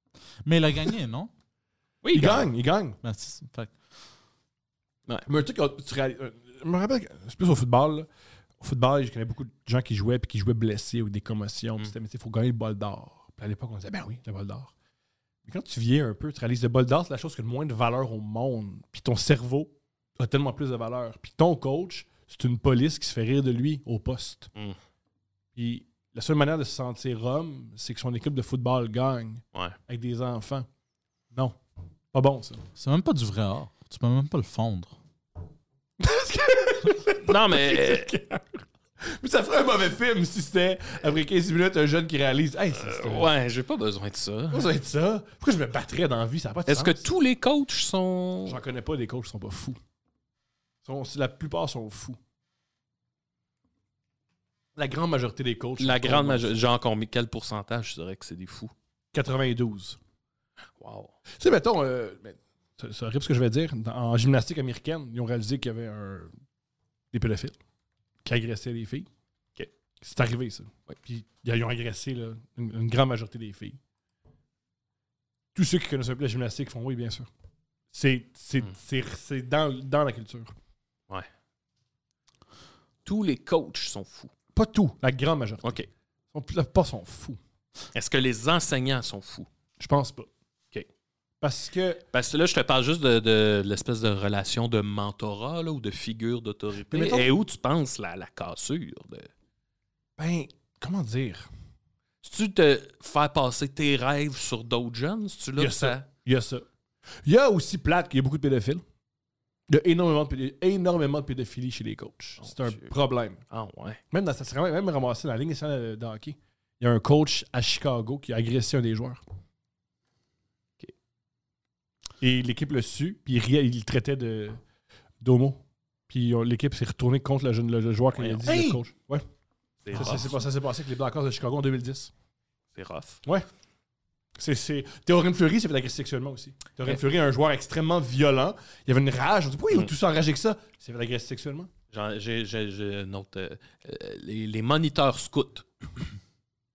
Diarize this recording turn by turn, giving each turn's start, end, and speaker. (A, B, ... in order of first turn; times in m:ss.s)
0:00.4-0:01.3 A
0:02.0-0:02.5 B
0:02.1-0:03.0 C
0:03.0-0:03.7 A
0:05.2-0:08.1 C
0:08.6-0:14.7 C
0:15.4-0:24.5 C
0:25.5-0:30.7 C
0:31.3-0:31.6 C
0:32.1-0:32.6 C
0:32.8-0:34.9 A
0:36.0-0:43.3 C
0:37.2-0:38.1 B
0:42.7-0:44.7 B
0:44.5-0:47.1 C
0:46.7-0:48.6 B
0:48.4-0:49.8 C
0:50.8-0:52.2 C
0:54.8-0:56.6 C
0:55.8-0:58.7 B
0:59.1-1:00.0 C
1:00.8-1:01.1 B
1:01.4-1:06.3 C
1:07.1-1:07.6 C
1:08.2-1:09.1 C
1:10.0-1:13.8 C
1:15.5-1:17.3 C
1:17.9-1:20.5 C
1:23.0-1:24.3 B
1:24.5-1:25.8 C
1:26.3-1:27.4 C
1:27.9-1:29.5 B
1:29.8-1:30.3 C
1:31.4-1:32.0 C
1:32.1-1:39.3 B
1:36.9-1:37.3 C
1:40.2-1:41.5 C
1:42.2-1:46.0 B
1:45.6-1:46.6 C
1:47.2-1:48.8 C
1:49.7-1:53.4 C
1:52.4-1:52.9 B
1:53.5-1:54.0 B
1:54.1-1:59.2 C
2:02.2-2:04.6 C
2:05.2-2:09.2 C
2:08.2-2:08.5 B
2:08.4-2:08.8 A
2:09.8-2:10.4 B
2:09.9-2:12.1 C
2:12.7-2:13.2 B
2:14.4-2:21.7 C
2:21.9-2:25.6 B